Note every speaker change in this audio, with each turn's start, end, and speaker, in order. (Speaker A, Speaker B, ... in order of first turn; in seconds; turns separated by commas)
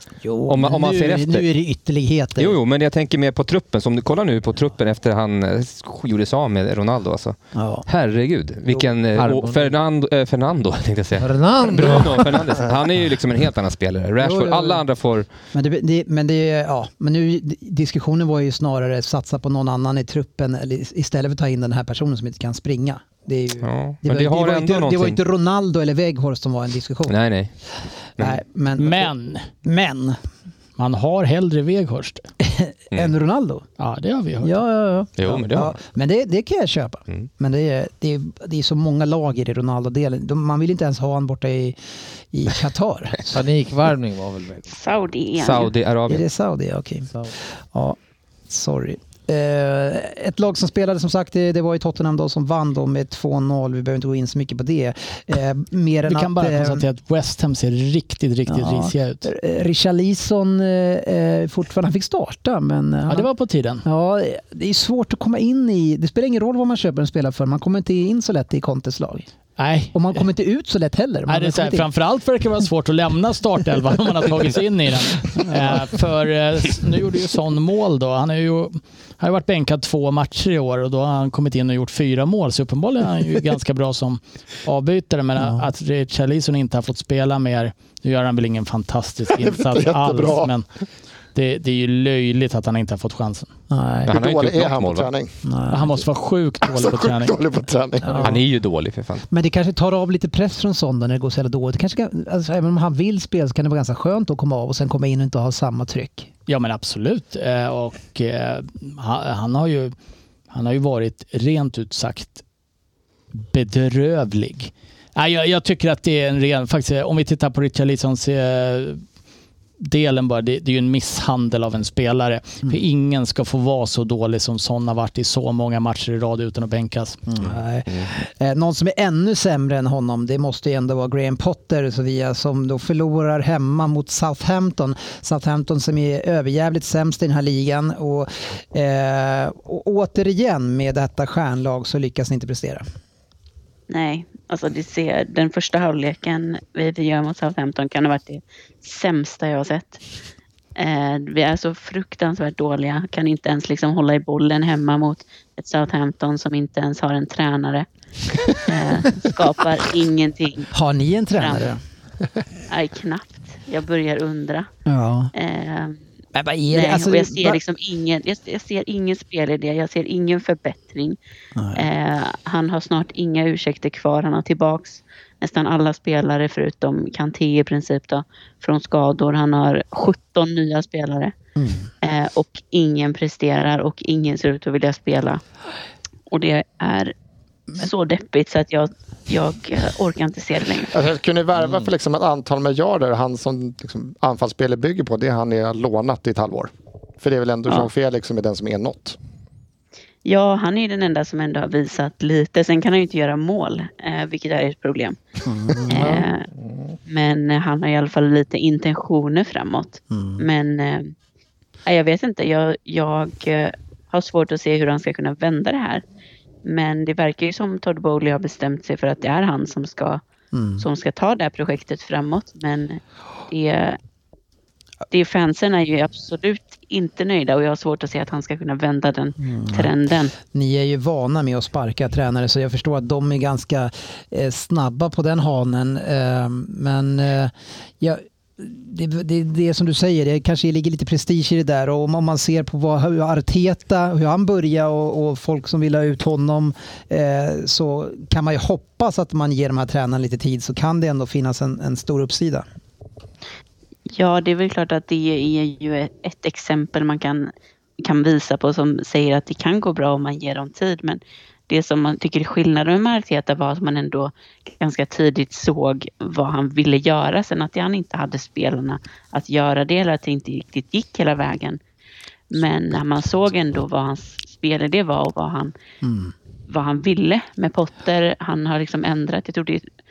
Speaker A: 0.2-2.6, Speaker B: 0.5-1.4, Speaker B: 2.4-7.4, Speaker A: 7.5-7.8, Speaker B: 7.9-15.3, Speaker C: 9.2-9.7, Speaker C: 11.2-12.6, Speaker A: 14.2-14.8, Speaker A: 15.5-27.1, Speaker B: 23.6-25.2, Speaker B: 27.1-27.5, Speaker A: 28.2-29.1, Speaker D: 28.8-29.5, Speaker A: 29.6-30.2, Speaker D: 30.8-32.2, Speaker A: 32.4-33.7, Speaker D: 33.8-34.6, Speaker A: 34.4-41.8, Speaker B: 35.2-35.8, Speaker A: 42.3-43.4, Speaker C: 43.3-44.7, Speaker E: 44.7-45.7, Speaker B: 45.4-46.2, Speaker A: 46.1-47.1, Speaker A: 48.5-56.9, Speaker D: 56.1-59.2, Speaker A: 58.5-63.3, Speaker D: 63.1-63.9, Speaker A: 63.8-69.3, Speaker D: 69.6-70.2, Speaker A: 69.9-71.9, Speaker D: 71.3-90.7, Speaker A: 85.4-85.7, Speaker F: 89.4-90.5, Speaker D: 91.3-93.5, Speaker A: 93.7-94.1, Speaker B: 94.1-95.1, Speaker F: 94.1-95.4, Speaker A: 95.4-95.9, Speaker D: 95.7-97.4, Speaker F: 96.6-98.3, Speaker A: 98.0-98.4, Speaker B: 98.2-99.3, Speaker A: 99.3-106.3, Speaker D: 106.5-109.9, Speaker D: 110.5-112.4, Speaker D: 113.3-119.0, Speaker D: 119.8-127.2, Speaker A: 127.3-142.8, Speaker E: 143.9-150.0, Speaker E: 150.8-157.9, Speaker E: 158.7-160.7, Speaker A: 160.7-161.8, Speaker E: 161.3-161.7, Speaker E: 162.7-164.7, Speaker A: 164.9-165.3, Speaker E: 165.3-166.0, Speaker A: 166.3-167.6, Speaker E: 166.7-171.2, Speaker A: 171.6-171.8, Speaker E: 171.8-181.3, Speaker A: 181.6-181.9, Speaker E: 182.0-185.4, Speaker E: 186.3-187.1, Speaker E: 187.8-190.9, Speaker F: 190.9-199.2, Speaker E: 200.2-205.2, Speaker A: 205.4-206.2, Speaker E: 205.8-206.5, Speaker C: 206.6-207.0, Speaker E: 207.1-211.1, Speaker A: 210.1-210.4, Speaker E: 211.9-216.0, Speaker E: 216.7-220.2, Speaker A: 220.5-220.8, Speaker E: 220.8-224.0, Speaker E: 225.1-230.3, Speaker A: 229.4-252.7, Speaker E: 254.1-271.8, Speaker E: 272.5-275.7, Speaker A: 276.0-276.3, Speaker E: 276.7-279.9